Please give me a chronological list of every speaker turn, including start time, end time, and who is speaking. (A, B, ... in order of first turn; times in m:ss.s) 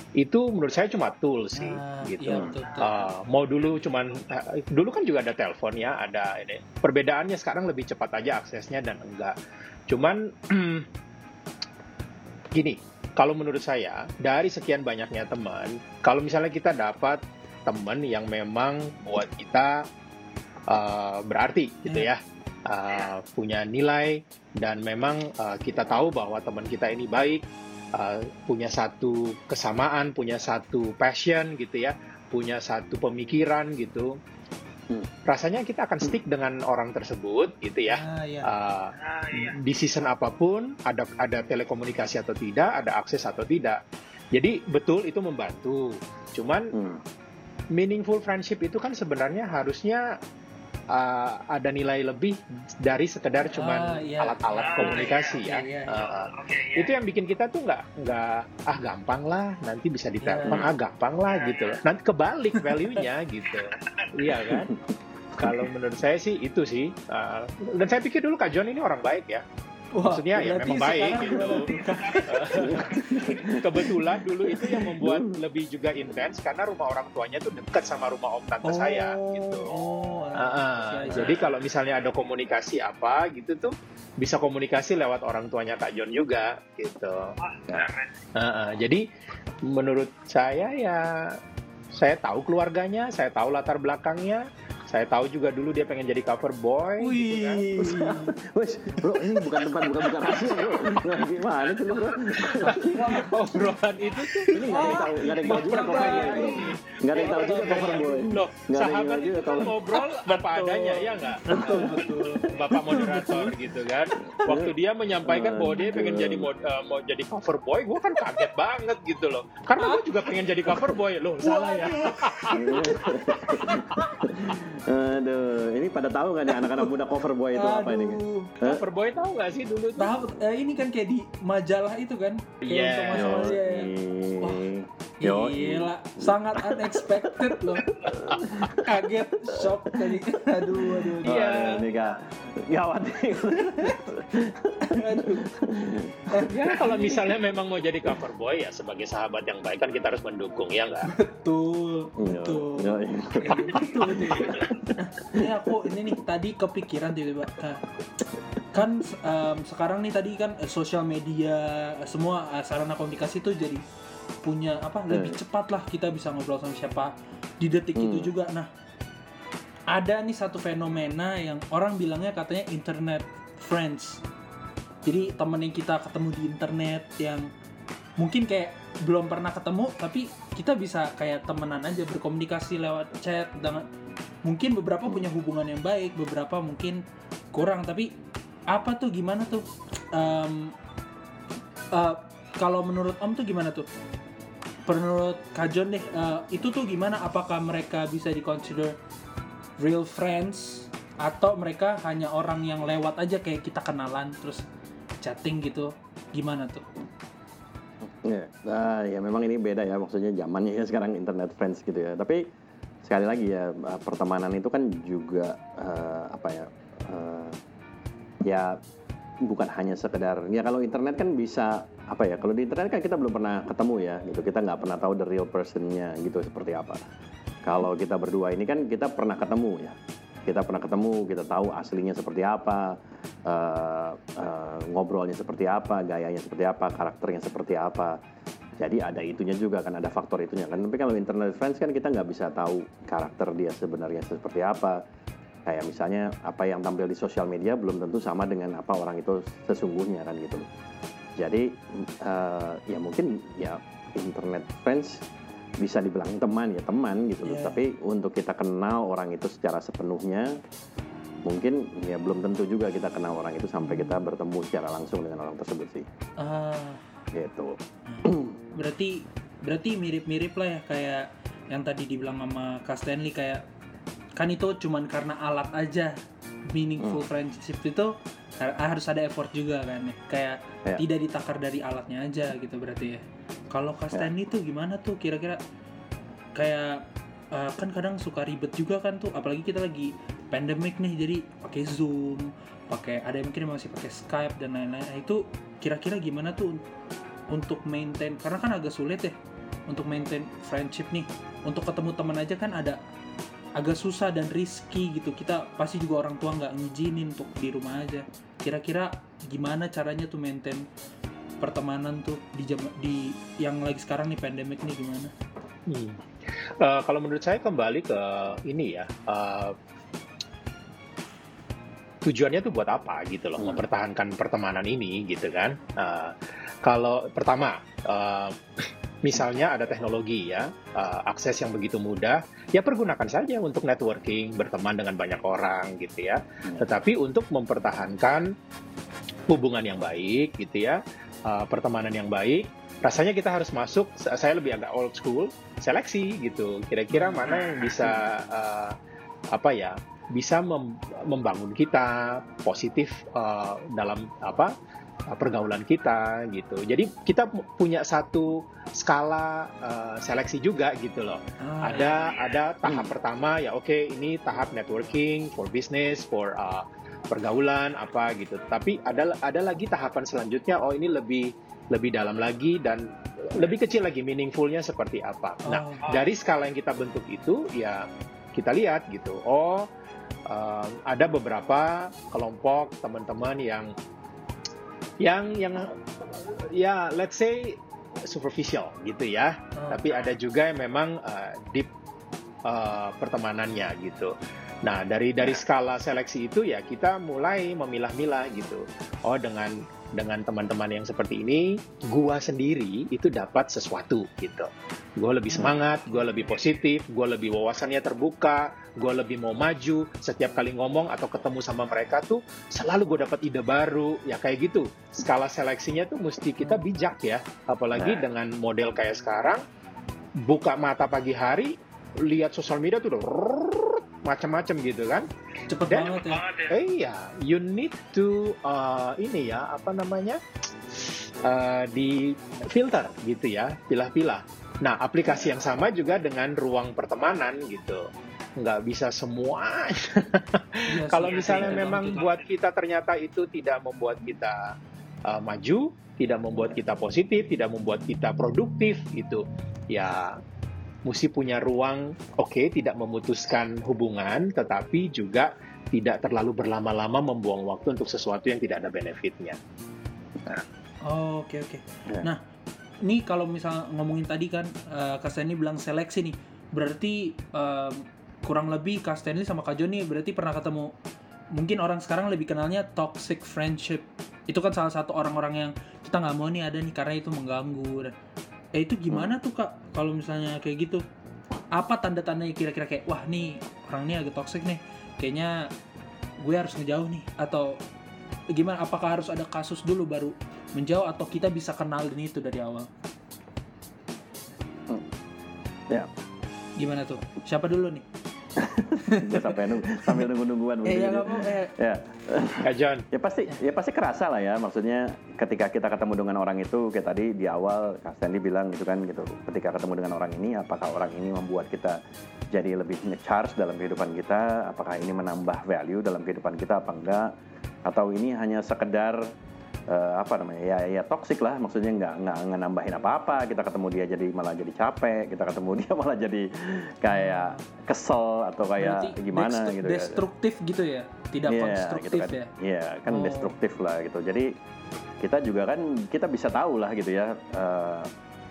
0:00.2-0:09.4 A
0:01.6-0:03.0 B
0:09.9-0:10.9 A
0:12.6-0:19.8 A
0:20.7-0:34.2 A
0:35.3-0:43.8 A
0:37.9-0:38.5 B
0:44.3-0:46.7 A
0:46.7-0:47.0 C
0:47.7-0:50.0 A
0:50.9-1:04.7 A
0:53.5-0:56.1 B
1:00.2-1:00.7 B
1:05.4-1:09.4 A
1:09.9-1:13.2 B
1:10.1-1:19.8 A
1:12.6-1:14.1 C
1:14.7-1:15.4 C
1:18.6-1:21.5 B
1:20.4-1:27.4 A
1:28.4-1:29.0 A
1:29.6-1:31.4 A
1:32.0-1:37.6 A
1:37.0-1:38.4 B
1:37.8-1:43.2 C
1:40.0-1:40.8 A
1:42.4-2:04.2 A
1:42.6-1:43.4 B
1:44.2-1:49.8 C
1:44.5-1:46.6 B
1:47.2-1:48.1 B
1:50.4-1:53.6 C
1:51.5-1:53.5 B
1:54.3-1:54.7 C
1:55.2-1:56.5 C
2:00.7-2:01.0 C
2:01.4-2:02.9 B
2:02.5-2:08.8 C
2:06.5-2:06.9 B
2:07.6-2:08.6 B
2:08.6-2:10.1 A
2:10.0-2:14.7 B
2:12.7-2:13.5 A
2:13.2-2:26.5 C
2:15.2-2:21.6 B
2:21.2-2:22.2 A
2:24.8-2:25.5 B
2:26.3-2:27.2 B
2:26.5-2:31.1 A
2:31.1-2:37.8 B
2:32.2-2:35.7 C
2:38.7-2:43.8 B
2:44.4-2:48.7 B
2:45.1-2:45.4 C
2:48.0-2:48.3 C
2:49.9-2:54.2 B
2:55.0-2:57.5 B
2:58.2-3:03.9 B
3:04.4-3:07.0 B
3:07.5-3:08.1 B
3:08.7-3:10.7 B
3:11.9-3:13.9 B
3:14.9-3:19.0 B
3:19.8-3:24.6 B
3:25.2-3:26.8 B
3:28.1-3:32.4 C
3:33.0-3:37.6 C
3:38.5-3:38.8 C
3:39.4-3:47.0 C
3:47.6-3:58.2 C
3:58.8-4:05.0 C
4:05.7-4:10.7 C
4:11.4-4:15.2 C
4:15.8-4:20.6 C
4:17.4-4:17.8 B
4:21.4-4:26.1 C
4:23.8-4:24.2 B
4:26.4-4:27.0 B
4:27.3-4:28.6 C
4:28.1-4:33.6 B
4:34.4-4:36.1 B
4:36.7-4:45.6 B
4:46.6-4:56.8 B
4:57.5-4:59.4 B
4:59.9-5:03.0 B
5:03.8-5:10.8 B
5:11.6-5:15.3 B
5:15.9-5:19.8 A
5:22.2-5:28.6 A
5:29.2-5:38.5 A
5:39.5-5:49.0 A
5:47.1-5:47.6 B
5:49.5-5:54.7 A
5:55.3-6:19.9 A
6:01.6-6:02.3 B
6:02.8-6:03.2 C
6:15.6-6:16.2 B
6:20.5-6:23.9 A
6:25.2-6:31.9 A
6:29.8-6:30.1 B
6:32.7-6:59.6 A
6:58.0-6:58.2 C
7:00.4-7:05.3 A
7:05.7-7:06.7 B
7:05.9-7:10.4 A
7:10.9-7:24.7 A
7:15.3-7:15.7 C
7:20.9-7:22.4 B
7:25.3-7:30.4 A
7:31.0-7:39.6 A
7:41.1-7:42.4 B
7:43.0-7:50.9 B
7:51.6-7:58.1 B
7:58.8-8:01.0 B
8:01.7-8:05.7 B
8:06.4-8:07.8 B
8:08.5-8:12.9 B
8:16.8-8:18.0 B
8:18.6-8:32.0 C
8:19.0-8:20.3 B
8:20.8-8:21.7 B
8:22.6-8:23.0 A
8:32.5-8:37.3 C
8:37.9-8:39.2 C
8:39.9-8:50.2 C
8:47.1-8:47.6 B
8:48.8-8:52.5 B
8:51.5-8:54.5 C
8:53.1-8:53.6 B
8:55.2-8:58.1 C